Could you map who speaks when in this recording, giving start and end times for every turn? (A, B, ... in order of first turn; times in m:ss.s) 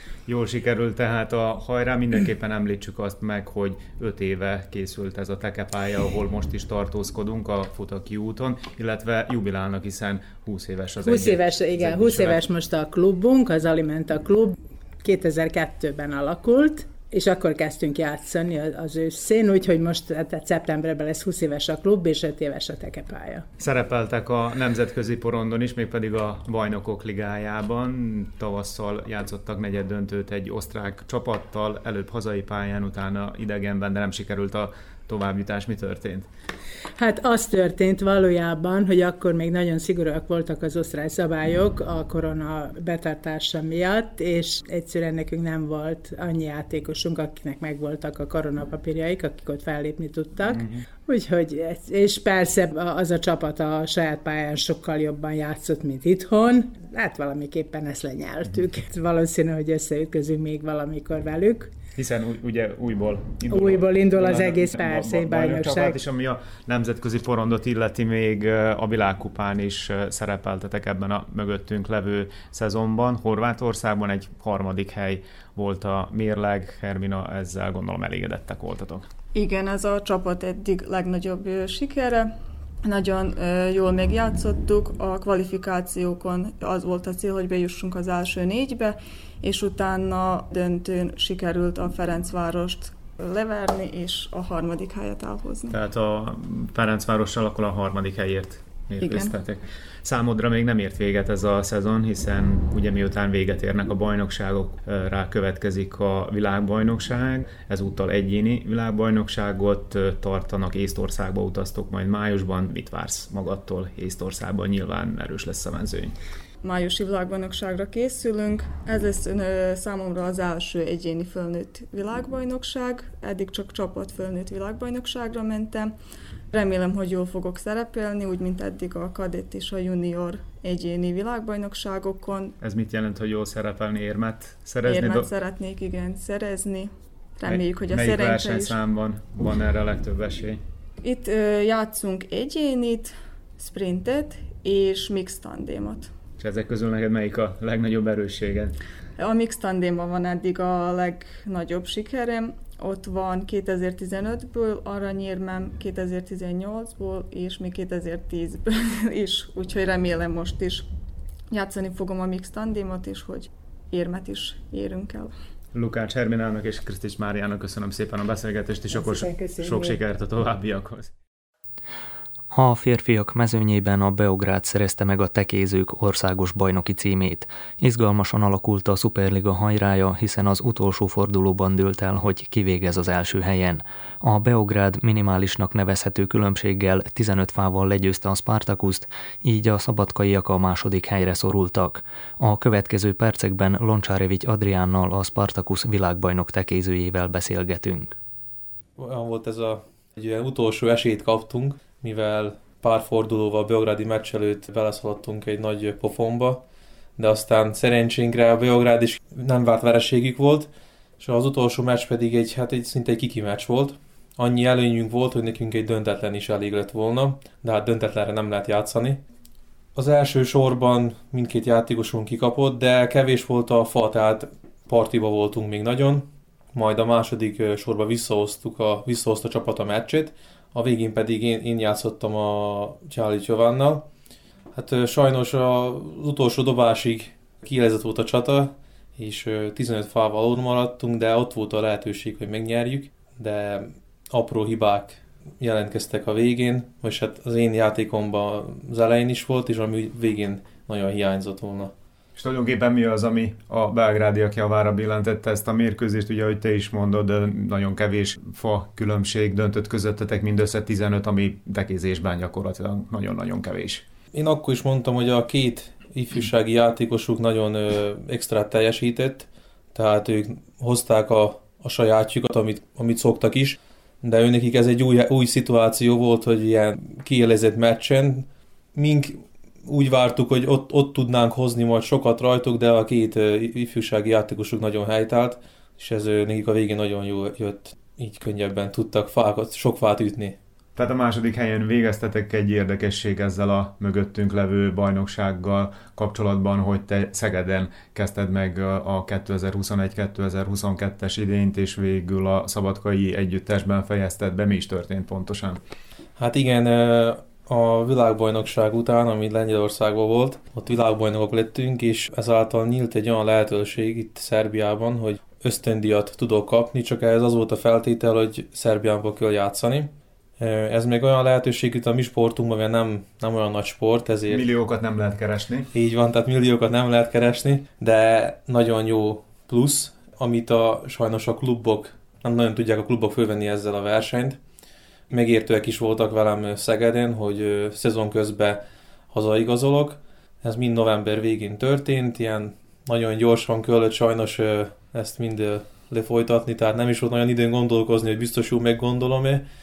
0:00.2-0:12.4 A
0:11.0-0:23.5 B
0:23.6-0:36.3 A
0:37.0-1:01.7 B
0:50.5-0:50.8 A
1:02.0-1:19.1 A
1:03.5-1:06.0 B
1:19.3-1:22.3 C
1:22.8-1:35.8 C
1:35.7-1:56.1 A
1:39.0-1:39.3 C
1:56.6-2:05.9 C
2:06.5-2:12.6 C
2:12.6-2:15.3 A
2:14.8-2:18.8 C
2:17.5-2:20.6 A
2:21.0-2:26.1 C
2:26.4-2:28.8 A
2:29.2-2:40.9 C
2:41.5-2:45.3 C
2:45.7-2:51.1 A
2:48.9-2:50.0 B
2:52.5-3:18.2 D
3:19.0-3:26.6 E
3:27.2-3:39.2 E
3:40.0-3:54.1 E
3:54.7-4:11.9 E
4:12.4-4:24.0 A
4:24.3-4:50.6 E
4:51.0-5:05.8 A
5:06.4-5:24.6 E
5:24.5-5:25.9 A
5:25.9-5:34.6 E
5:35.3-5:49.6 E